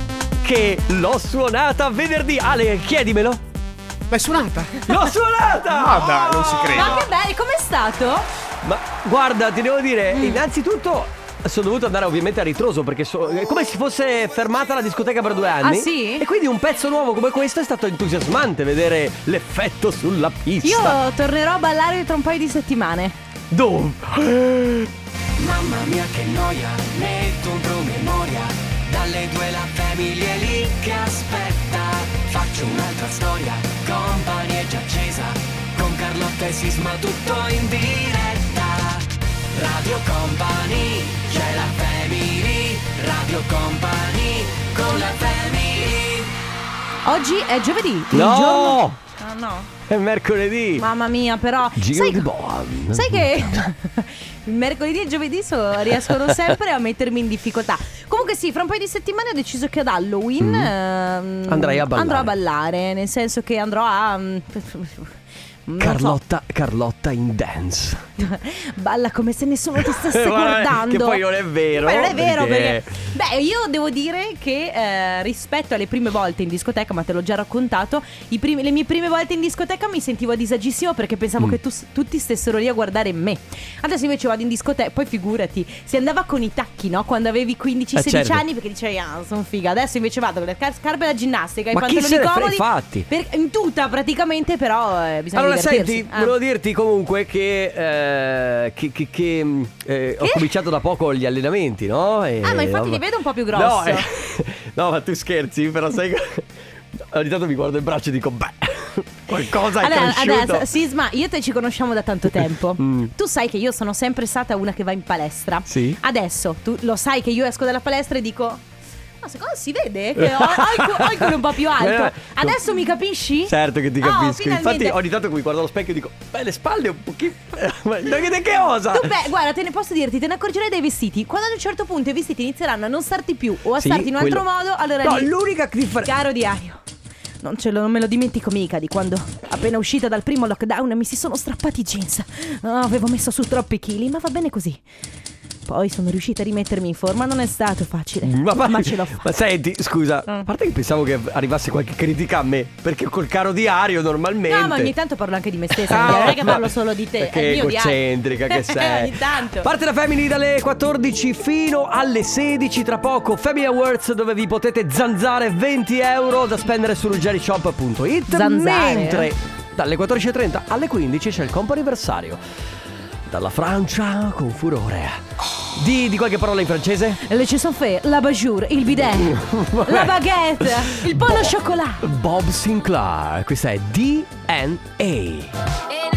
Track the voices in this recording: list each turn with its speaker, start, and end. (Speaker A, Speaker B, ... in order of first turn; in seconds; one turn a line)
Speaker A: 0.4-3.4
Speaker B: 4.1-5.0
Speaker A: 4.9-7.0
Speaker B: 5.7-7.0
Speaker C: 6.7-8.3
Speaker A: 8.6-21.0
Speaker C: 10.1-10.4
Speaker C: 15.6-16.2
Speaker C: 20.6-23.2
Speaker A: 23.5-24.9
Speaker D: 25.4-46.3
Speaker C: 47.0-49.7
Speaker A: 48.1-49.0
Speaker A: 49.9-50.8
Speaker C: 50.8-52.3
Speaker A: 51.8-53.7
Speaker C: 52.9-65.1
Speaker A: 56.1-56.5
Speaker A: 60.4-60.7
Speaker A: 61.5-62.3
Speaker C: 65.7-66.2
Speaker A: 65.8-68.0
Speaker C: 68.2-96.3
Speaker A: 69.8-73.0
Speaker A: 87.9-88.4
Speaker A: 91.7-93.1
Speaker A: 95.3-110.7
Speaker C: 100.2-100.5
Speaker C: 102.4-104.1
Speaker C: 109.8-118.6
Speaker A: 112.4-113.1
Speaker A: 115.7-116.0
Speaker C: 119.2-125.0
Speaker A: 120.2-122.7
Speaker A: 123.4-129.1
Speaker C: 128.9-135.3
Speaker A: 133.7-134.4
Speaker A: 135.0-136.1
Speaker C: 136.0-136.8
Speaker C: 137.4-144.8
Speaker C: 145.7-149.3
Speaker A: 148.2-154.9
Speaker C: 154.5-159.7
Speaker A: 155.7-172.4
Speaker C: 168.3-169.3
Speaker A: 173.3-175.2
Speaker A: 175.8-177.2
Speaker C: 177.3-182.1
Speaker A: 179.2-185.5